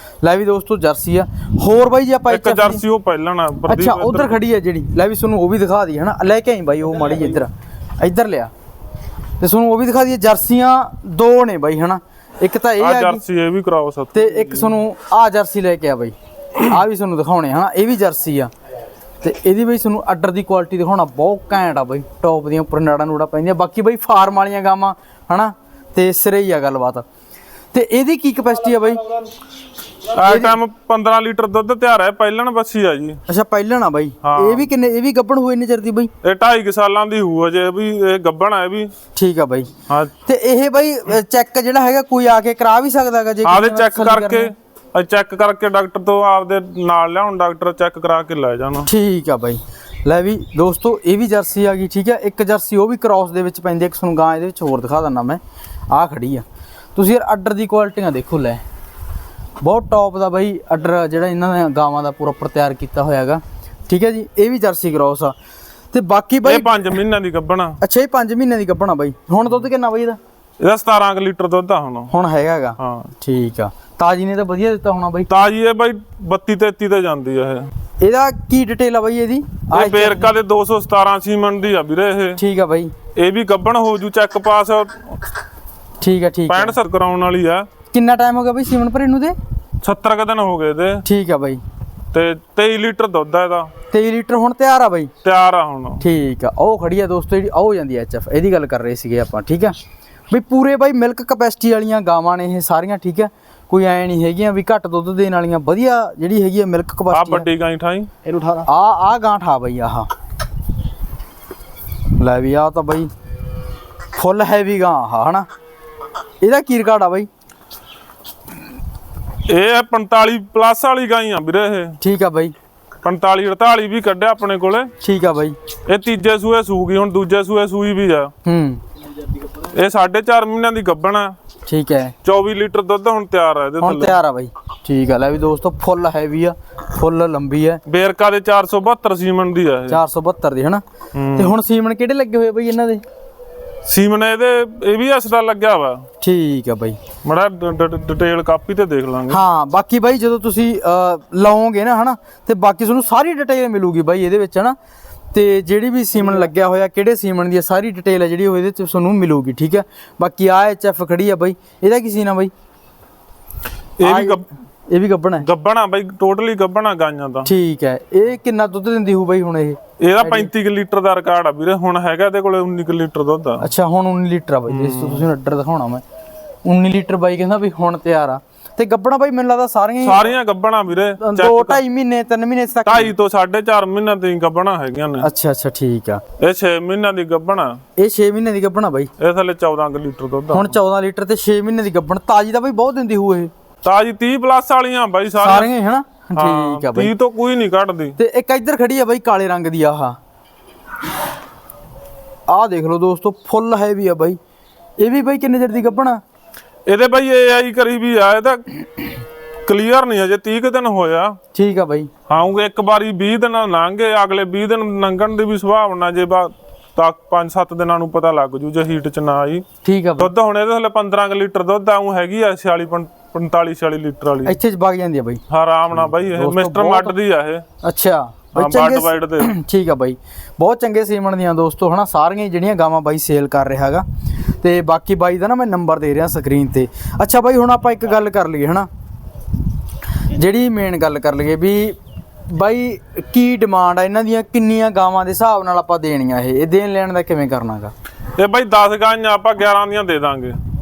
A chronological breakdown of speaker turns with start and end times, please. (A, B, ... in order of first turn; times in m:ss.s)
0:00.2-0:02.8 A
0:02.3-0:04.4 B
0:03.7-0:08.5 A
0:09.4-0:13.2 A
0:12.8-0:14.8 B
0:14.1-0:18.5 A
0:19.2-0:27.0 A
0:27.7-0:29.2 A
0:30.1-0:33.2 B
0:30.1-0:30.6 A
0:33.3-0:36.1 A
0:34.2-0:34.7 B
0:36.2-0:38.9 B
0:39.1-0:39.7 A
0:39.9-0:40.1 B
0:40.2-0:44.5 A
0:43.4-0:48.9 B
0:48.8-0:55.4 A
0:55.9-0:58.6 A
0:59.6-1:05.3 A
1:05.9-1:06.8 A
1:06.4-1:07.8 B
1:07.8-1:10.2 A
1:10.6-1:12.1 B
1:12.1-1:15.3 A
1:12.8-1:13.1 B
1:15.3-1:17.7 B
1:18.0-1:20.3 A
1:19.7-1:22.4 B
1:22.4-1:22.9 A
1:23.2-1:25.2 B
1:26.0-1:26.8 A
1:26.5-1:27.7 B
1:27.9-1:29.4 A
1:29.8-1:31.0 B
1:31.0-1:31.6 A
1:32.1-1:33.7 B
1:33.9-1:35.1 A
1:35.2-1:36.0 B
1:36.0-1:39.7 A
1:40.3-1:47.5 A
1:47.1-1:48.1 B
1:48.4-1:50.1 A
1:52.2-1:53.1 A
1:54.1-1:55.4 A
1:56.4-1:57.3 A
1:59.4-2:02.0 B
2:02.0-2:02.5 A
2:03.0-2:04.9 B
2:05.0-2:05.6 A
2:05.8-2:08.3 B
2:08.4-2:08.8 A
2:09.6-2:11.4 B
2:11.7-2:12.1 A
2:12.2-2:14.2 B
2:13.8-2:17.8 A
2:17.8-2:20.0 B
2:19.9-2:20.8 A
2:21.1-2:21.6 B
2:21.3-2:23.0 A
2:23.8-2:26.0 B
2:26.2-2:27.0 A
2:27.2-2:29.4 B
2:29.3-2:34.8 A
2:35.3-2:42.5 A
2:44.0-2:44.4 B
2:44.0-2:45.4 A
2:45.4-2:47.5 B
2:47.4-2:50.5 A
2:50.0-2:53.7 B
2:53.6-2:56.0 A
2:54.7-2:55.2 B
2:56.6-3:00.3 A
3:00.0-3:01.8 B
3:01.2-3:03.1 A
3:02.8-3:05.3 B
3:05.2-3:06.2 A
3:06.4-3:07.8 B
3:08.0-3:09.1 A
3:09.2-3:10.8 B
3:10.5-3:13.5 A
3:13.8-3:15.7 B
3:15.4-3:17.1 A
3:16.4-3:18.2 B
3:18.2-3:20.2 A
3:22.5-3:24.4 A
3:25.0-3:26.2 A
3:26.9-3:28.7 B
3:29.6-3:31.4 B
3:31.5-3:32.1 A
3:32.3-3:39.6 B
3:39.8-3:40.3 A
3:40.2-3:44.5 B
3:44.4-3:45.4 A
3:45.5-3:47.6 B
3:46.0-3:47.1 A
3:47.8-3:58.9 A
3:48.5-3:49.5 B
4:00.3-4:02.0 A
4:02.5-4:07.9 A
4:08.4-4:10.6 B